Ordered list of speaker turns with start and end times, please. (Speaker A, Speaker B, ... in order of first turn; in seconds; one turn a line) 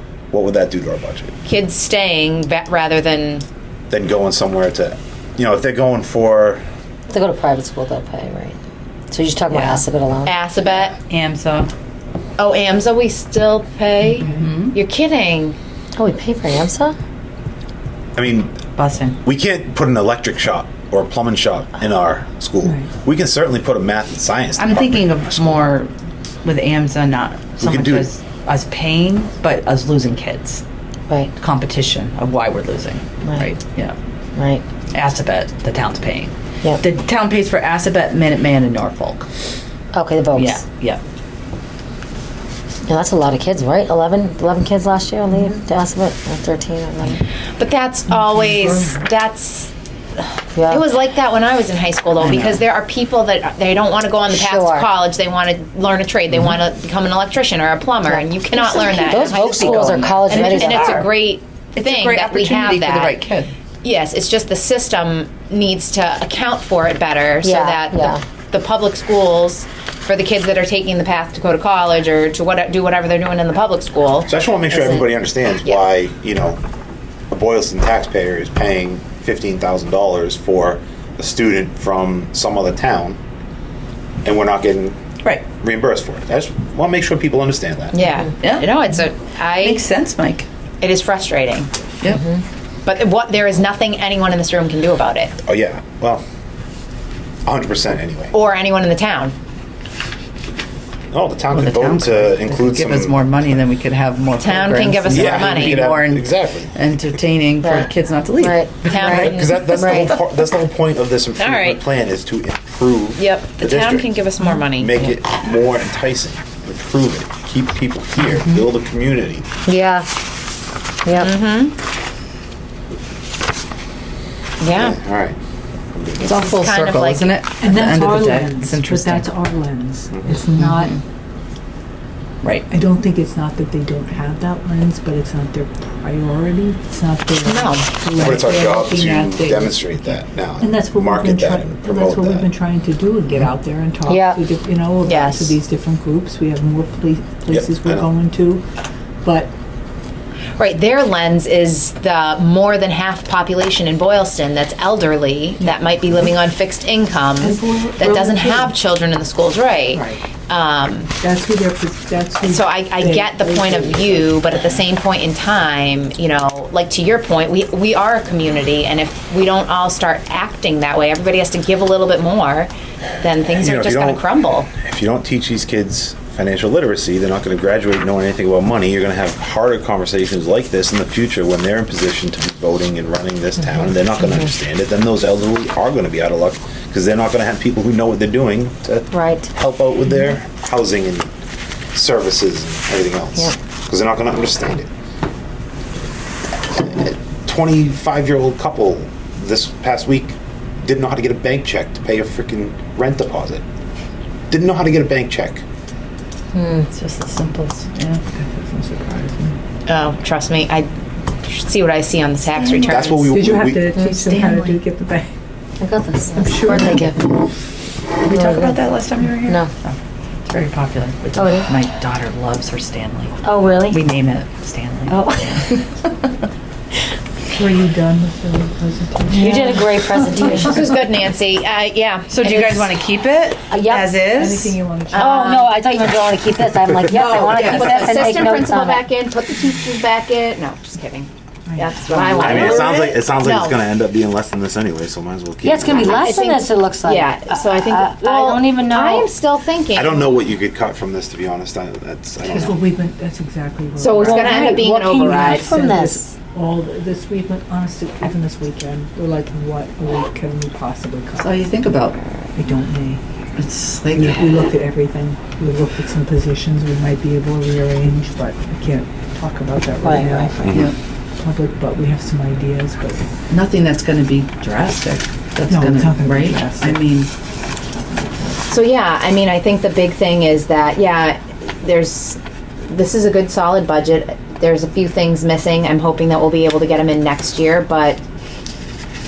Speaker A: 0.3-1.4
Speaker B: 1.4-3.5
Speaker A: 3.9-6.6
Speaker C: 7.1-8.6
Speaker C: 9.1-10.3
Speaker D: 9.5-9.8
Speaker B: 10.3-10.9
Speaker D: 10.9-11.7
Speaker B: 12.4-15.6
Speaker D: 14.2-14.8
Speaker C: 16.0-17.0
Speaker A: 18.2-18.6
Speaker D: 18.8-19.2
Speaker A: 19.2-25.6
Speaker D: 24.6-25.9
Speaker D: 26.4-30.6
Speaker A: 27.6-28.1
Speaker D: 31.4-34.0
Speaker C: 33.2-33.5
Speaker C: 34.4-34.6
Speaker D: 34.9-39.2
Speaker C: 39.9-40.6
Speaker D: 40.4-41.0
Speaker C: 42.9-47.2
Speaker B: 47.6-63.2
Speaker C: 50.5-50.9
Speaker D: 52.2-52.6
Speaker C: 54.3-54.9
Speaker C: 58.0-61.0
Speaker D: 59.1-61.1
Speaker D: 61.8-63.5
Speaker B: 63.8-74.3
Speaker C: 67.4-68.2
Speaker A: 74.3-76.6
Speaker A: 77.3-83.2
Speaker A: 84.2-88.0
Speaker B: 87.9-89.8
Speaker D: 88.4-88.7
Speaker D: 89.6-90.5
Speaker B: 90.8-91.7
Speaker C: 92.1-92.4
Speaker B: 92.8-95.3
Speaker A: 95.5-96.2
Speaker A: 97.5-98.3
Speaker B: 98.3-99.3
Speaker A: 101.1-103.2
Speaker D: 101.5-110.2
Speaker B: 104.4-105.8
Speaker A: 105.1-106.8
Speaker C: 108.4-110.2
Speaker B: 108.9-109.6
Speaker A: 109.1-114.1
Speaker B: 111.4-111.8
Speaker B: 113.2-115.0
Speaker A: 114.8-119.5
Speaker D: 118.3-118.6
Speaker C: 119.7-120.1
Speaker C: 121.0-121.3
Speaker B: 121.2-121.8
Speaker B: 124.6-125.0
Speaker A: 124.7-125.4
Speaker A: 125.9-126.5
Speaker D: 126.2-129.3
Speaker B: 126.3-127.3
Speaker E: 127.6-131.0
Speaker A: 130.1-130.4
Speaker D: 130.6-130.9
Speaker E: 132.7-148.6
Speaker B: 137.4-137.9
Speaker A: 138.1-142.5
Speaker C: 144.1-144.4
Speaker B: 145.1-145.5
Speaker A: 147.5-148.1
Speaker E: 149.2-149.5
Speaker B: 150.6-161.1
Speaker E: 155.6-156.3
Speaker E: 157.4-158.8
Speaker E: 159.9-160.3
Speaker E: 161.2-164.7
Speaker B: 162.5-174.7
Speaker A: 173.5-191.3
Speaker C: 189.1-189.5
Speaker A: 191.9-194.9
Speaker A: 196.7-203.6
Speaker A: 204.5-205.6
Speaker C: 206.5-206.9
Speaker D: 206.9-208.2
Speaker E: 208.3-209.6
Speaker B: 209.9-210.9
Speaker B: 211.4-213.3
Speaker D: 212.6-213.1
Speaker A: 212.9-213.9
Speaker E: 213.3-215.3
Speaker C: 213.9-214.3
Speaker B: 214.2-214.8
Speaker C: 215.8-217.4
Speaker E: 216.4-217.3
Speaker D: 218.2-226.3
Speaker C: 218.2-218.9
Speaker C: 219.4-219.7
Speaker C: 221.3-221.7
Speaker C: 223.4-224.0
Speaker C: 225.1-225.8
Speaker E: 227.5-229.9
Speaker C: 229.3-231.0
Speaker B: 230.3-232.9
Speaker D: 232.3-234.8
Speaker C: 233.7-234.2
Speaker E: 234.3-235.6
Speaker B: 235.1-235.7
Speaker C: 235.2-239.0
Speaker D: 237.1-238.5
Speaker E: 237.2-237.8
Speaker B: 237.8-243.8
Speaker E: 241.7-242.5
Speaker A: 242.3-246.4
Speaker C: 245.6-249.3
Speaker B: 246.0-250.3
Speaker A: 249.9-252.8
Speaker E: 252.4-261.5
Speaker B: 254.0-255.7
Speaker C: 254.2-256.3
Speaker D: 261.4-262.2
Speaker E: 262.6-263.2
Speaker D: 263.6-264.6
Speaker E: 264.1-270.8
Speaker C: 270.0-270.5
Speaker A: 270.6-270.9
Speaker D: 270.7-270.9
Speaker E: 271.4-273.3
Speaker D: 273.5-277.3
Speaker E: 275.7-277.0
Speaker B: 278.7-288.2